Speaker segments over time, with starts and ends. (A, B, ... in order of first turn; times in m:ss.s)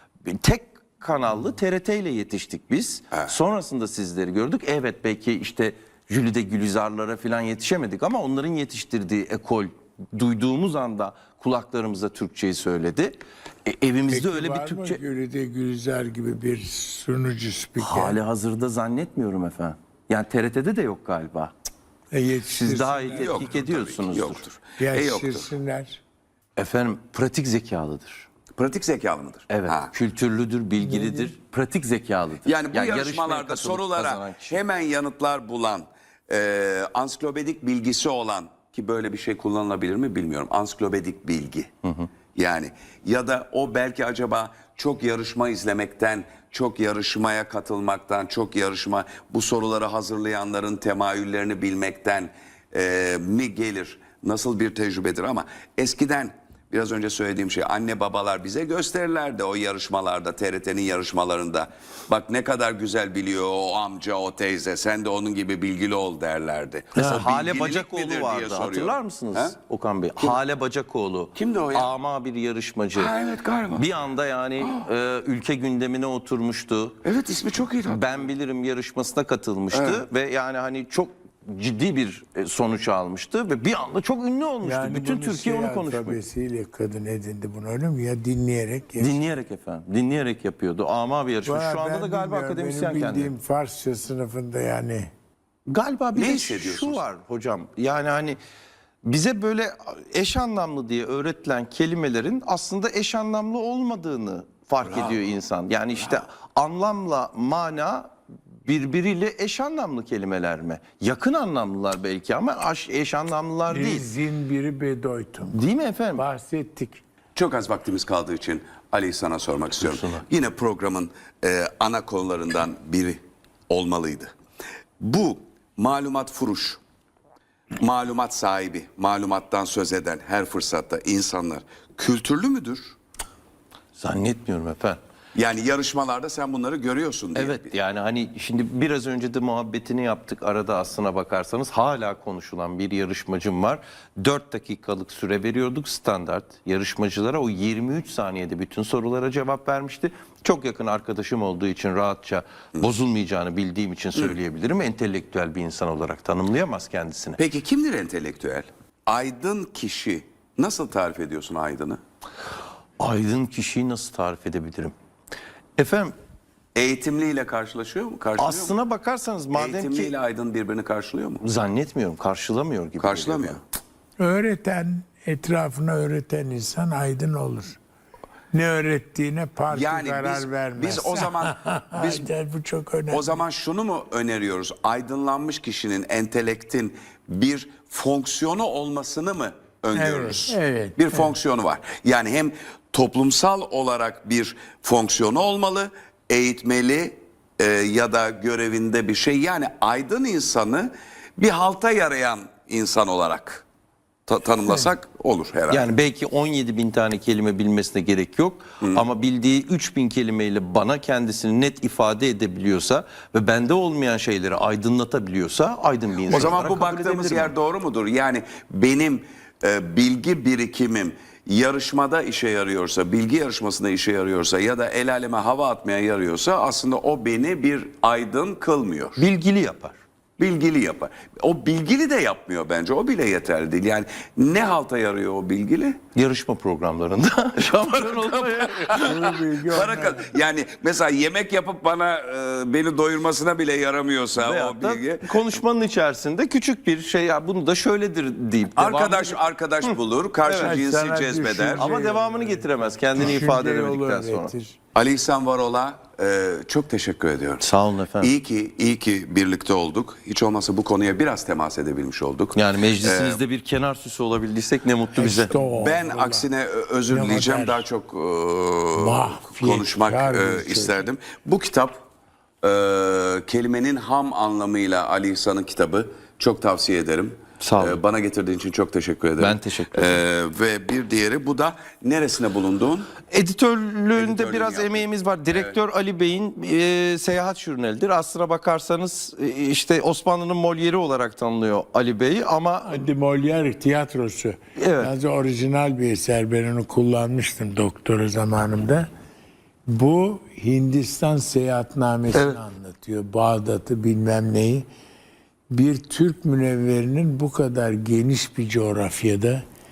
0:00.2-0:15.0 A
0:14.1-0:18.2 B
0:17.8-0:21.5 A
0:22.1-0:23.5 B
0:22.5-0:24.4 A
0:23.2-0:25.5 C
0:24.8-0:26.0 B
0:26.6-0:28.2 A
0:28.6-0:29.9 C
0:29.5-0:34.6 A
0:30.8-0:31.3 B
0:32.4-0:41.7 C
0:42.3-1:09.5 C
1:06.9-1:13.1 A
1:11.3-1:11.9 C
1:12.9-1:13.9 C
1:13.7-1:17.0 A
1:14.6-1:14.8 C
1:17.0-1:18.3 C
1:17.9-1:26.2 A
1:19.7-1:20.0 C
1:24.6-1:29.2 B
1:29.0-1:33.4 A
1:31.4-1:35.1 B
1:35.7-1:38.4 A
1:36.1-1:37.0 C
1:39.0-1:48.1 A
1:44.8-1:45.2 C
1:48.6-1:54.1 A
1:53.7-1:55.6 B
1:55.5-1:56.2 A
1:56.2-1:57.0 B
1:57.3-2:04.3 C
1:59.8-2:00.2 A
2:05.0-2:06.8 C
2:07.8-2:13.0 C
2:14.0-2:15.0 A
2:15.3-2:17.8 C
2:17.3-2:37.4 A
2:37.4-2:42.0 C
2:43.0-2:44.9 A
2:45.8-2:46.1 A
2:46.8-2:48.7 C
2:48.4-2:50.1 A
2:49.5-2:51.4 C
2:51.4-2:53.6 A
2:53.0-2:53.6 C
2:54.2-2:57.8 B
2:58.5-3:03.3 B
2:59.7-3:02.3 C
3:03.1-3:23.6 C
3:09.9-3:11.3 B
3:24.3-3:25.9 C
3:25.7-3:37.5 A
3:36.3-3:49.2 C
3:49.2-3:50.0 A
3:50.4-3:56.0 C
3:56.1-3:59.4 A
3:57.8-3:59.1 C
3:58.9-4:00.2 B
3:59.7-4:05.4 C
4:04.3-4:10.8 A
4:08.8-4:11.9 C
4:10.5-4:14.8 B
4:11.8-4:14.5 A
4:14.9-4:17.6 C
4:17.6-4:18.3 A
4:18.2-4:23.4 C
4:22.5-4:25.5 A
4:25.1-4:26.5 B
4:25.6-4:32.0 C
4:27.1-4:27.8 B
4:29.0-4:31.0 B
4:32.6-4:43.1 C
4:37.6-4:38.0 A
4:39.4-4:40.2 A
4:43.3-4:53.0 A
4:44.1-4:45.8 C
4:52.9-4:59.0 B
4:54.8-4:55.1 A
4:59.9-5:04.8 B
5:02.3-5:02.6 A
5:05.7-5:09.6 B